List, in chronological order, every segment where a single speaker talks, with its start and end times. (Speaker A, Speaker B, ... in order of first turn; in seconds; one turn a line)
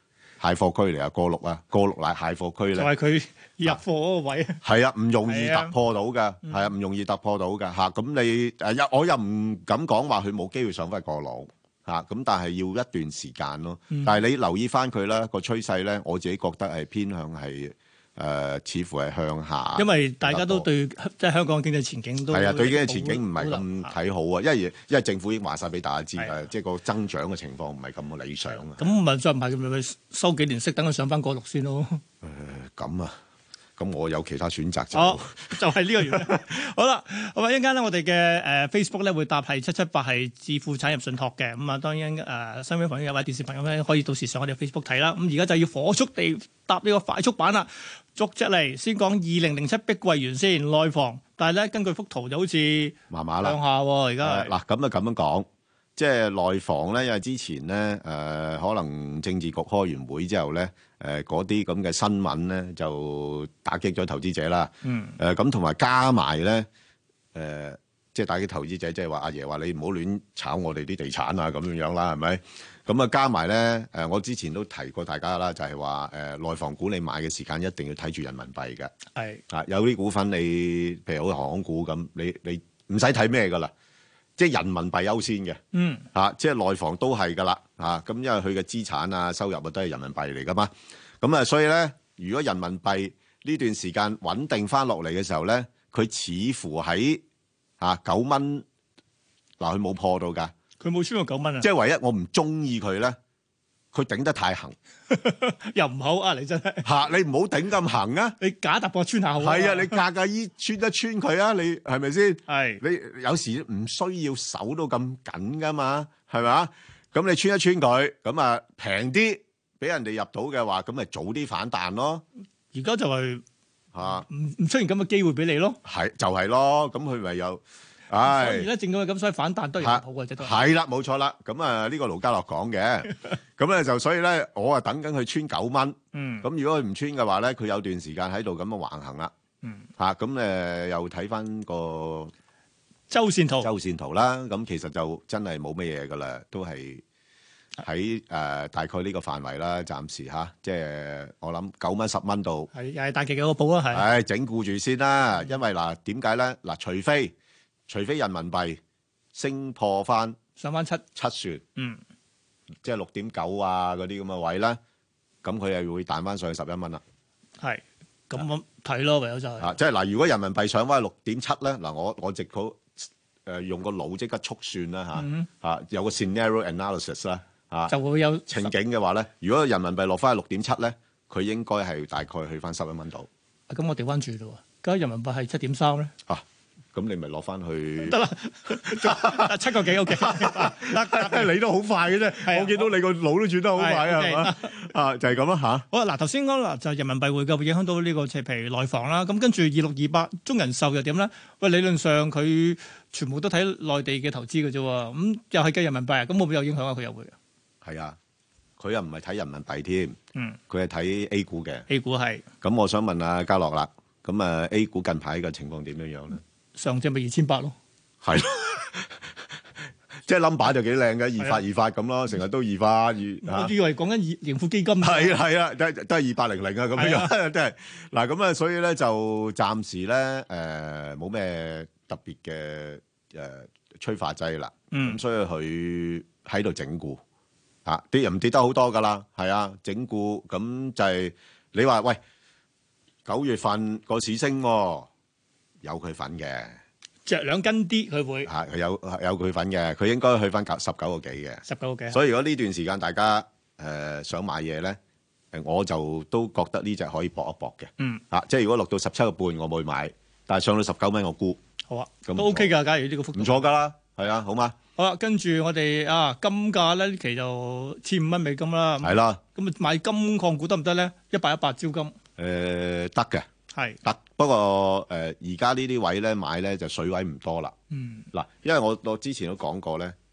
Speaker A: 0.4-2.9
Speaker B: 2.8-4.6
Speaker A: 4.6-20.7
Speaker B: 5.3-5.7
Speaker B: 13.9-14.2
Speaker B: 19.8-23.9
Speaker A: 22.3-28.8
Speaker B: 28.8-32.0
Speaker A: 32.2-33.2
Speaker A: 33.8-35.6
Speaker B: 34.9-54.5
Speaker A: 53.1-53.6
Speaker A: 54.2-66.7
Speaker B: 64.8-65.2
Speaker A: 67.3-78.9
Speaker B: 79.2-79.4
Speaker A: 79.5-83.7
Speaker A: 84.4-85.6
Speaker B: 85.7-86.1
Speaker A: 86.1-97.2
Speaker A: 97.8-98.7
Speaker A: 99.6-100.5
Speaker B: 100.8-101.7
Speaker A: 101.6-103.2
Speaker A: 103.9-104.8
Speaker B: 105.1-106.9
Speaker A: 106.8-108.4
Speaker B: 108.4-110.0
Speaker A: 109.4-122.2
Speaker B: 112.5-112.8
Speaker B: 122.7-123.4
Speaker A: 123.9-124.2
Speaker B: 124.0-125.8
Speaker A: 125.8-128.7
Speaker B: 128.2-130.6
Speaker A: 129.8-139.3
Speaker B: 136.1-136.4
Speaker A: 140.0-142.3
Speaker B: 143.1-143.7
Speaker A: 143.6-147.0
Speaker A: 147.8-152.7
Speaker B: 152.7-154.1
Speaker A: 153.9-157.3
Speaker A: 157.9-158.8
Speaker A: 159.3-160.4
Speaker B: 160.6-161.0
Speaker A: 161.2-161.6
Speaker A: 162.8-164.8
Speaker A: 165.4-167.0
Speaker B: 167.6-169.7
Speaker A: 169.6-177.9
Speaker B: 175.2-175.5
Speaker B: 177.9-178.7
Speaker A: 178.5-183.3
Speaker B: 183.7-186.1
Speaker A: 186.3-188.2
Speaker B: 188.1-191.5
Speaker A: 188.8-189.5
Speaker A: 190.1-195.9
Speaker B: 192.4-192.9
Speaker B: 193.8-194.7
Speaker B: 195.9-207.3
Speaker A: 207.8-208.2
Speaker A: 208.8-210.2
Speaker A: 210.7-211.9
Speaker B: 211.9-212.4
Speaker A: 212.6-216.4
Speaker B: 216.8-217.8
Speaker A: 218.2-219.3
Speaker A: 220.2-223.7
Speaker B: 223.4-225.4
Speaker A: 225.0-237.2
Speaker B: 227.0-227.3
Speaker B: 234.9-235.2
Speaker A: 237.9-242.2
Speaker A: 243.3-245.1
Speaker A: 245.8-246.8
Speaker B: 247.3-248.5
Speaker A: 248.4-255.0
Speaker B: 251.7-252.2
Speaker A: 255.5-261.6
Speaker B: 261.9-263.7
Speaker A: 262.2-262.7
Speaker A: 263.3-264.8
Speaker B: 265.0-272.1
Speaker A: 269.0-269.4
Speaker A: 272.4-273.5
Speaker A: 274.0-277.8
Speaker B: 277.9-278.2
Speaker A: 278.3-280.1